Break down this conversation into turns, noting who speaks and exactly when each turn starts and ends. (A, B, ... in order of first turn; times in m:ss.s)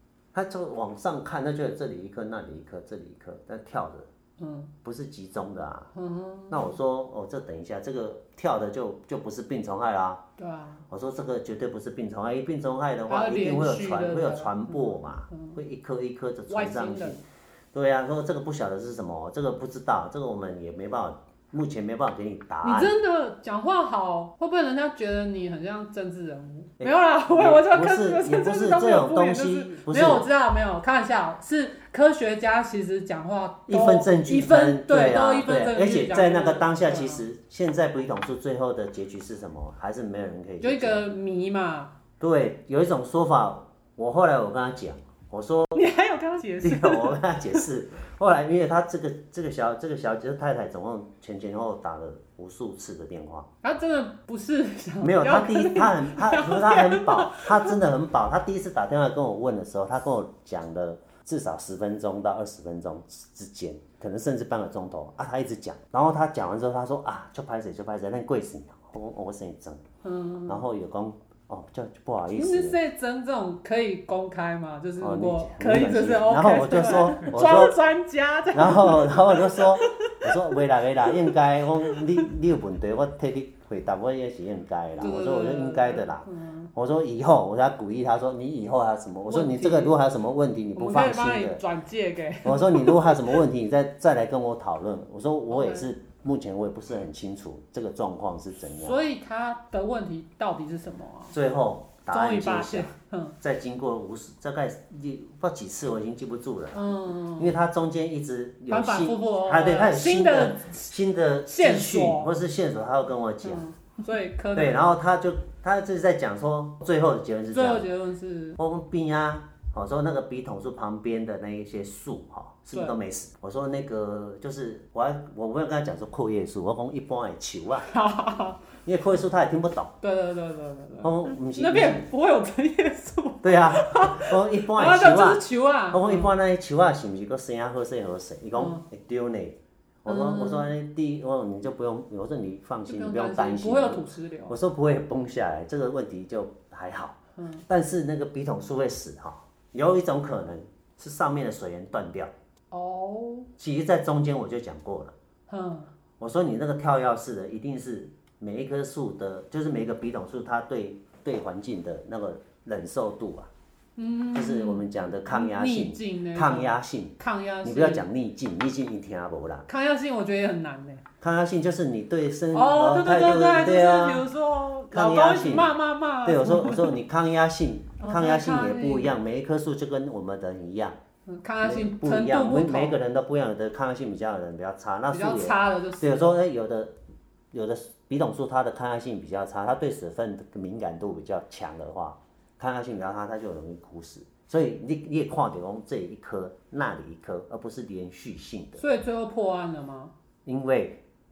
0:00.3-0:04.1 A
0:04.4-0:04.7 B
0:04.8-0:05.9 A
0:05.9-0:06.7 B
0:06.5-0:10.2 A
0:10.4-0:10.8 B
0:10.9-0:22.9 A
0:13.1-0:15.6 B
0:16.5-0:17.2 B
0:22.6-0:37.2 B
0:26.8-0:30.2 A
0:33.7-0:41.0 A
0:40.6-0:41.9 B
0:42.2-0:45.9 A
0:45.7-0:47.6 B
0:46.6-0:53.5 A
0:53.6-0:57.8 B
0:55.0-1:09.8 A
1:10.0-1:10.6 B
1:10.5-1:12.8 A
1:12.3-1:20.6 B
1:15.0-1:17.8 A
1:18.5-1:31.6 A
1:25.0-1:26.7 B
1:29.3-1:29.9 B
1:30.7-1:33.4 B
1:32.4-1:39.0 A
1:35.5-1:35.9 B
1:38.8-1:41.4 B
1:41.3-1:53.6 A
1:42.1-1:43.4 B
1:46.7-1:47.5 B
1:48.7-1:50.9 B
1:51.5-1:52.3 B
1:53.4-1:54.8 B
1:54.5-1:57.8 A
1:57.5-1:58.6 B
1:58.6-2:07.9 A
2:07.9-2:08.6 B
2:08.8-2:09.9 A
2:10.0-2:16.3 B
2:11.0-2:12.0 A
2:13.4-2:27.2 A
2:18.6-2:18.8 B
2:20.0-2:20.7 B
2:22.9-2:24.6 B
2:27.4-2:27.6 B
2:27.7-2:32.3 A
2:32.7-2:33.5 B
2:33.6-2:35.1 A
2:35.5-2:35.9 B
2:36.2-2:43.5 A
2:44.0-2:48.0 B
2:44.3-2:49.7 A
2:49.7-2:51.0 B
2:51.2-2:54.3 A
2:52.5-2:57.0 B
2:54.9-3:01.0 A
2:58.0-2:59.1 B
3:01.3-3:03.0 B
3:01.6-3:06.9 A
3:05.1-3:06.3 B
3:07.5-3:18.8 A
3:18.8-3:20.1 B
3:20.4-3:21.0 A